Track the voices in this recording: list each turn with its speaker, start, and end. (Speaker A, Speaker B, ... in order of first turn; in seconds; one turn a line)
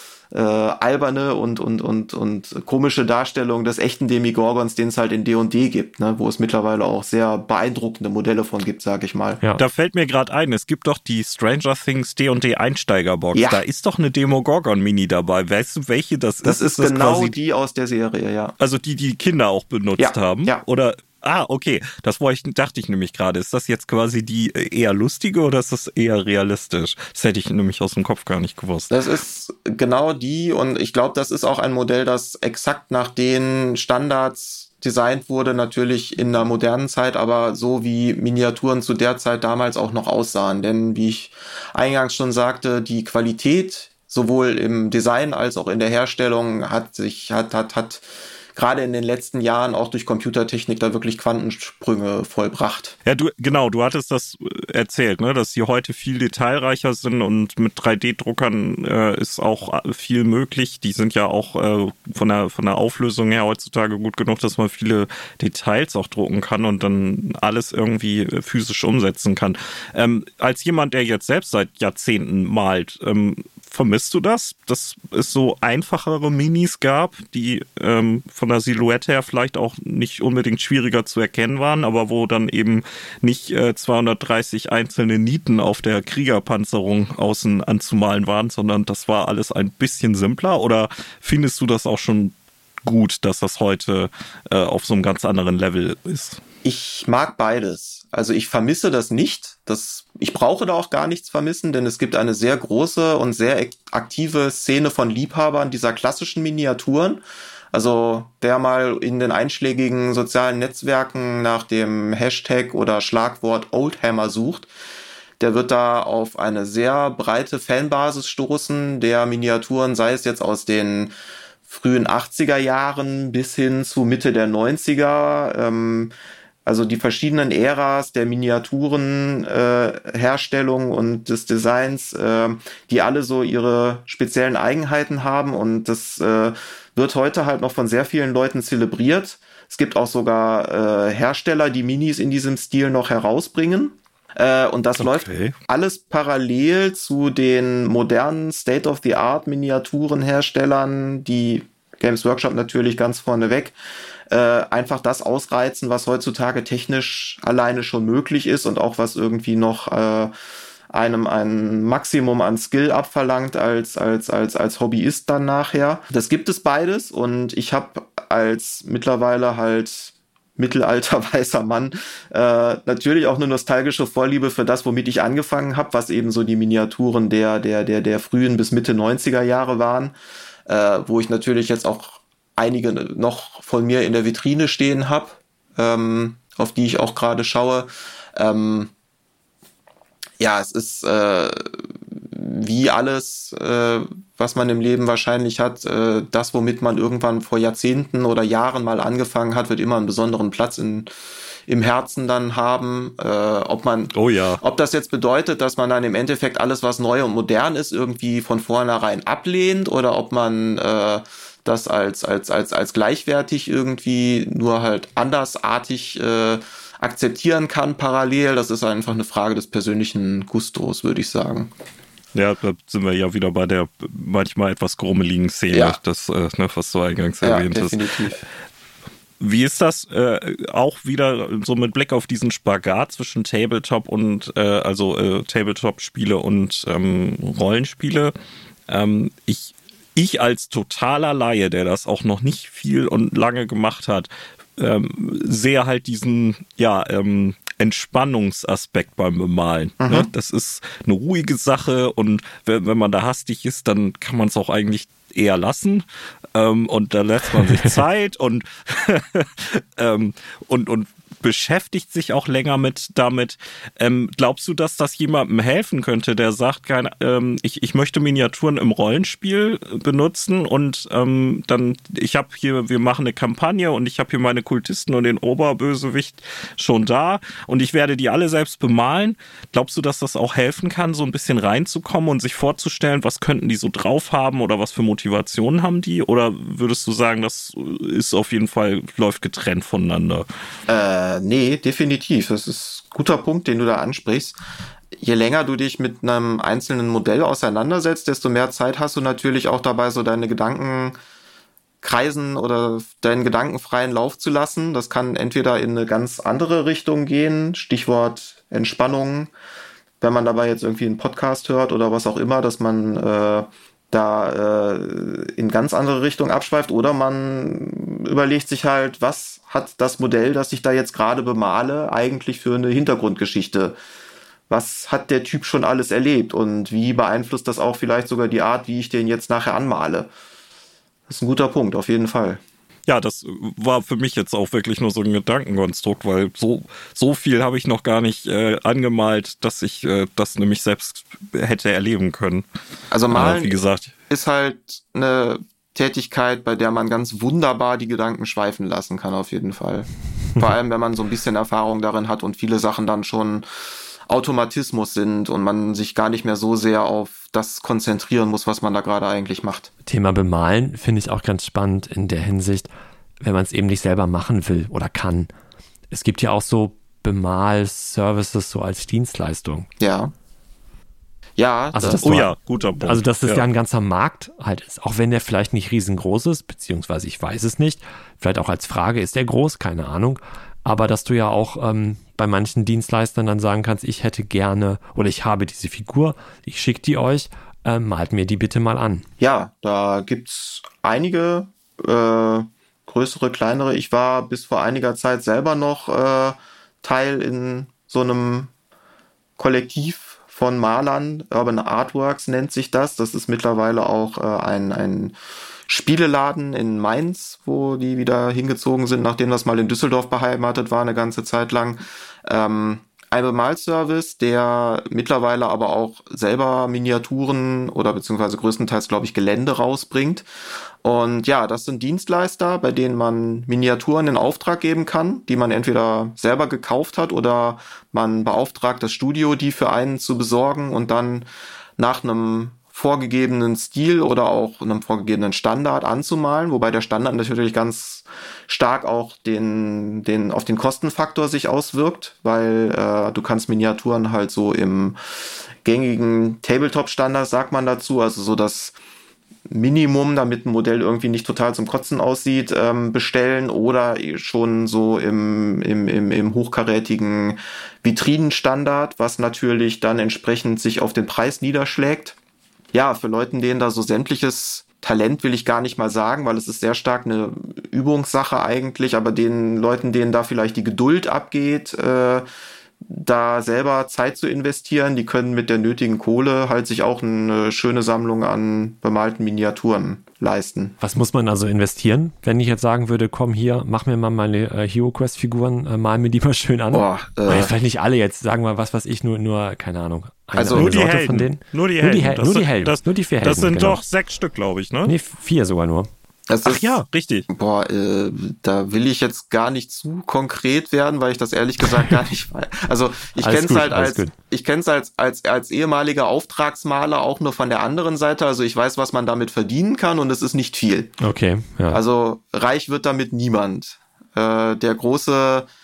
Speaker A: 0.3-9.4
Speaker B: 9.6-17.3
Speaker A: 13.3-13.6
Speaker A: 16.4-18.5
Speaker B: 18.6-28.9
Speaker A: 20.0-20.6
Speaker A: 28.9-53.0
Speaker B: 53.0-92.3
Speaker B: 92.8-96.4
Speaker A: 96.6-114.7
Speaker A: 115.4-121.1
Speaker A: 121.7-126.1
Speaker A: 126.7-153.7
Speaker B: 145.0-145.5
Speaker A: 154.3-160.3
Speaker A: 160.9-180.1
Speaker A: 180.7-188.9
Speaker A: 190.4-201.1
Speaker A: 201.7-221.7
Speaker B: 204.1-204.6
Speaker B: 222.3-228.0
Speaker A: 225.7-226.0
Speaker A: 227.4-228.4
Speaker B: 229.4-238.3
Speaker B: 238.9-290.4
Speaker A: 250.0-250.3
Speaker C: 257.6-257.9
Speaker A: 290.9-294.6
Speaker A: 295.2-301.2
Speaker A: 302.0-309.5
Speaker A: 310.2-324.0
Speaker A: 324.7-330.3
Speaker A: 331.3-332.6
Speaker B: 333.1-342.6
Speaker A: 343.1-343.7
Speaker B: 343.3-344.1
Speaker A: 344.3-353.6
Speaker A: 354.3-359.9
Speaker C: 360.1-362.9
Speaker C: 363.4-365.5
Speaker C: 366.1-369.9
Speaker A: 370.0-370.3
Speaker A: 371.6-372.3
Speaker C: 371.9-372.5
Speaker B: 372.2-373.6
Speaker C: 373.0-389.2
Speaker A: 389.4-398.7
Speaker A: 399.6-405.4
Speaker A: 405.9-420.4
Speaker A: 421.0-448.9
Speaker A: 449.7-462.4
Speaker A: 462.9-472.4
Speaker A: 473.0-480.9
Speaker C: 481.0-494.0
Speaker A: 486.9-487.7
Speaker A: 490.5-490.9
Speaker B: 490.7-495.1
Speaker C: 495.1-496.1
Speaker A: 496.5-497.0
Speaker B: 496.6-497.5
Speaker A: 497.5-511.2
Speaker C: 503.4-504.3
Speaker C: 511.2-512.0
Speaker A: 511.9-515.7